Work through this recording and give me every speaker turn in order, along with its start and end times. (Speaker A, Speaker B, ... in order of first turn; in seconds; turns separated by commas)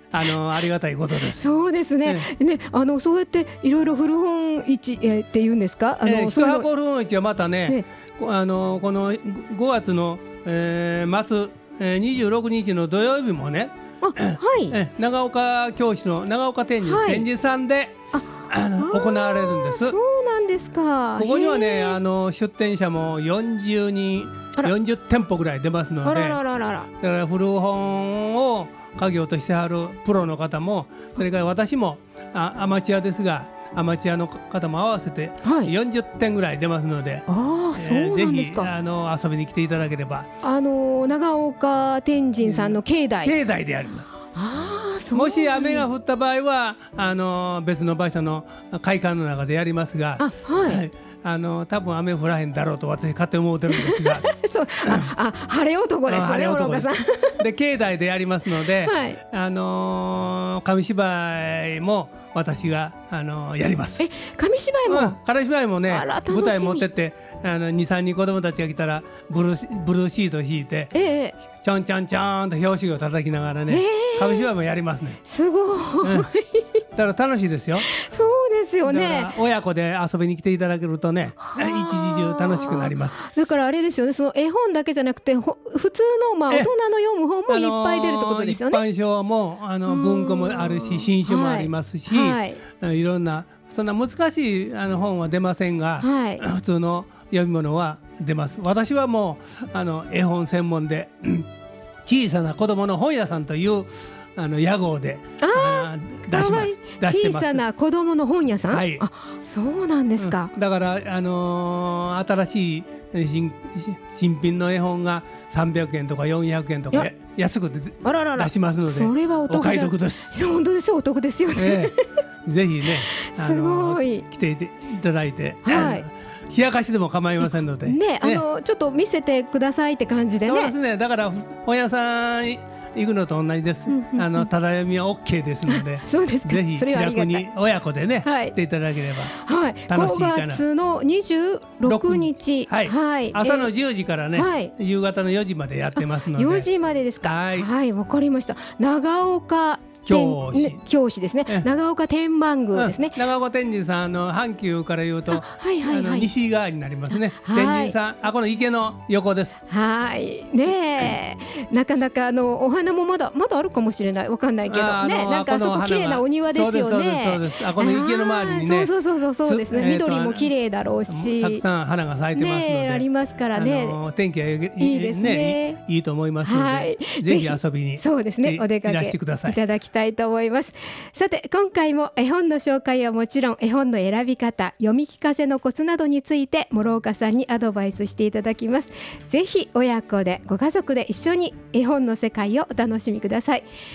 Speaker A: 0.1-1.5, Speaker B: 1.4-6.7, Speaker A: 6.0-19.9, Speaker B: 14.0-14.8, Speaker B: 16.8-17.3, Speaker B: 18.1-22.0, Speaker A: 21.2-26.4, Speaker B: 26.0-26.9, Speaker A: 27.0-40.3, Speaker B: 35.4-35.7, Speaker B: 37.3-38.7, Speaker B: 40.4-43.3, Speaker A: 42.4-44.1, Speaker B: 44.3-45.9, Speaker A: 45.1-54.3, Speaker B: 50.2-50.8, Speaker B: 53.7-57.4, Speaker A: 54.8-55.1, Speaker A: 56.1-64.0, Speaker B: 58.8-59.2, Speaker B: 64.0-65.2, Speaker A: 64.9-75.2, Speaker B: 65.9-66.8, Speaker B: 70.9-71.3, Speaker B: 73.7-74.5, Speaker B: 75.2-76.8, Speaker A: 76.0-76.3, Speaker A: 76.9-77.9, Speaker B: 77.8-79.3, Speaker A: 78.8-83.2, Speaker B: 81.4-88.8, Speaker A: 87.5-101.5, Speaker B: 89.9-92.6, Speaker B: 96.0-96.4, Speaker A: 102.0-107.6, Speaker B: 105.4-110.5, Speaker A: 108.7-109.0, Speaker A: 110.2-120.3, Speaker B: 118.0-122.0, Speaker A: 121.5-128.4, Speaker B: 123.1-124.2, Speaker B: 125.6-126.0, Speaker B: 127.8-130.7, Speaker A: 130.4-139.3, Speaker B: 133.9-134.5, Speaker B: 135.7-137.5, Speaker B: 138.2-138.5, Speaker B: 139.3-143.7, Speaker A: 139.9-140.6, Speaker A: 141.8-146.7, Speaker B: 144.3-144.7, Speaker B: 146.0-153.2, Speaker A: 147.2-147.7, Speaker A: 150.1-150.8, Speaker A: 152.7-159.6, Speaker B: 155.3-156.3, Speaker B: 157.1-157.9, Speaker B: 159.7-171.6, Speaker A: 164.7-168.9, Speaker A: 169.4-170.5, Speaker A: 171.1-179.6, Speaker B: 172.3-174.0, Speaker B: 174.8-175.8, Speaker B: 176.4-193.7